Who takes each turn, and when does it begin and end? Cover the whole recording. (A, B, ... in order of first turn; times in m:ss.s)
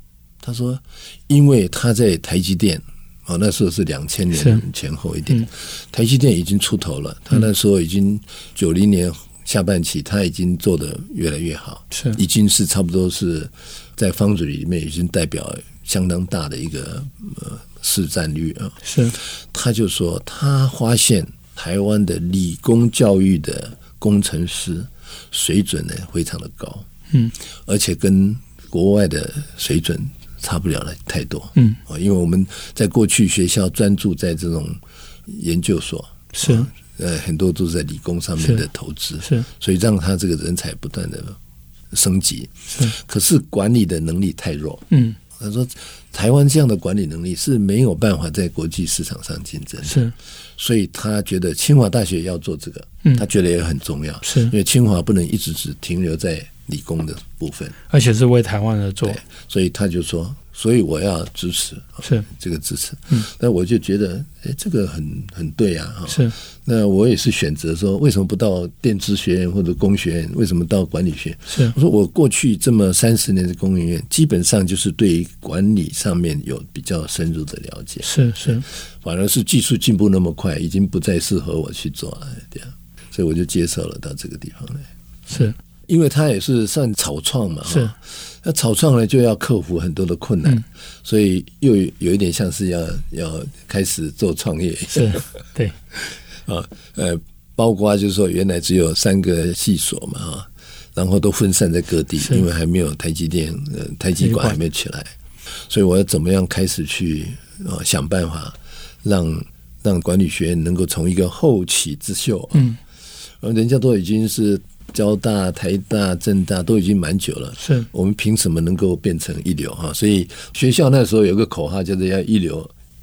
0:00.4-0:26.8 A
0:04.4-0:04.6 B
0:11.9-0:12.2 B
0:18.8-0:19.2 B
0:27.6-0:41.4 A
0:36.4-0:36.7 B
0:38.4-0:38.6 B
0:41.9-0:44.8 A
0:44.9-0:45.2 B
0:45.4-0:57.8 A
0:49.8-0:50.1 B
0:54.2-0:54.5 B
0:57.9-0:59.2 B
0:59.0-1:24.9 A
1:11.5-1:11.8 B
1:18.0-1:18.6 B
1:25.3-1:25.6 B
1:25.9-1:35.3 A
1:27.7-1:27.9 B
1:35.0-1:35.8 B
1:36.0-1:52.8 A
1:44.2-1:44.6 B
1:53.4-2:02.7 A
1:57.6-1:57.9 B